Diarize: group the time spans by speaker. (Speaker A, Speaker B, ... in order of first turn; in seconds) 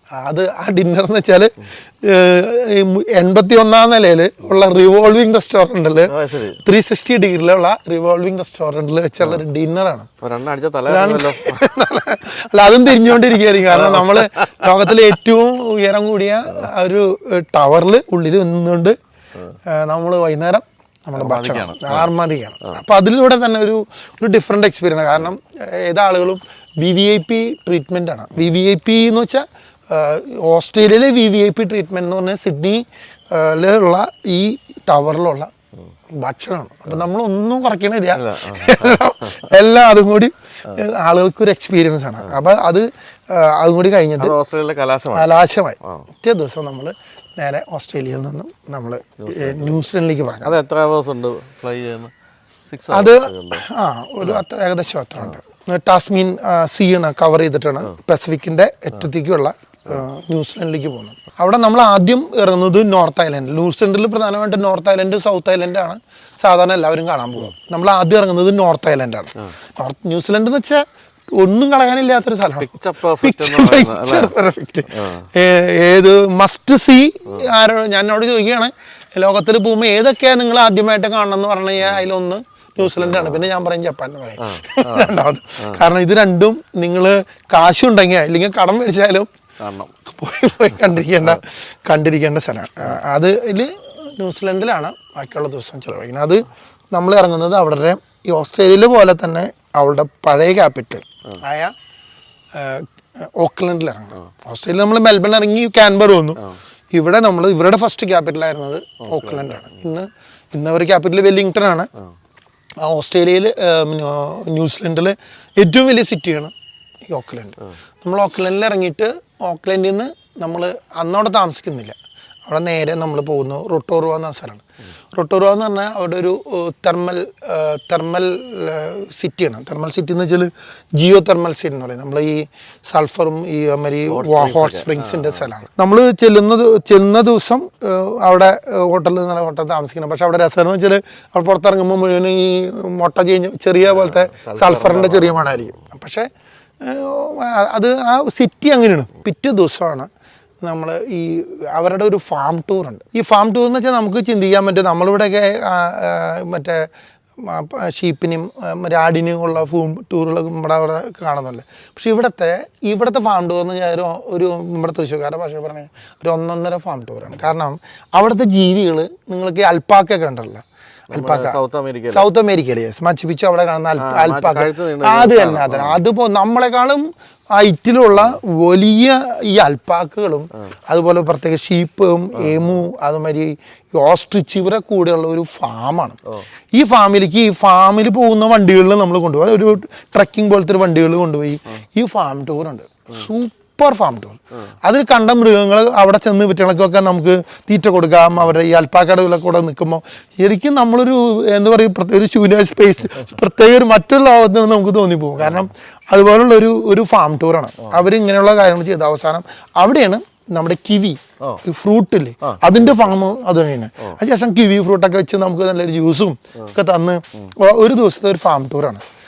Speaker A: 0.1-10.1, 10.9-19.0, 19.7-35.5, 36.1-44.4, 45.1-50.6, 52.9-89.3, 90.0-101.7, 102.5-111.9, 112.8-116.5, 117.1-146.3, 146.8-150.1, 150.6-171.6, 172.1-186.2, 186.7-219.0
Speaker B: 6.1-6.6, 10.2-11.7, 13.7-14.7, 21.2-22.1, 38.1-39.4, 44.2-45.3, 49.2-49.8, 50.4-52.1, 52.7-53.6, 72.6-74.3, 74.9-75.3, 82.8-83.4, 84.4-85.8, 89.6-89.9, 109.0-109.6, 134.1-135.5, 143.9-145.7, 171.1-172.3, 174.0-176.0, 205.4-205.7, 212.4-213.1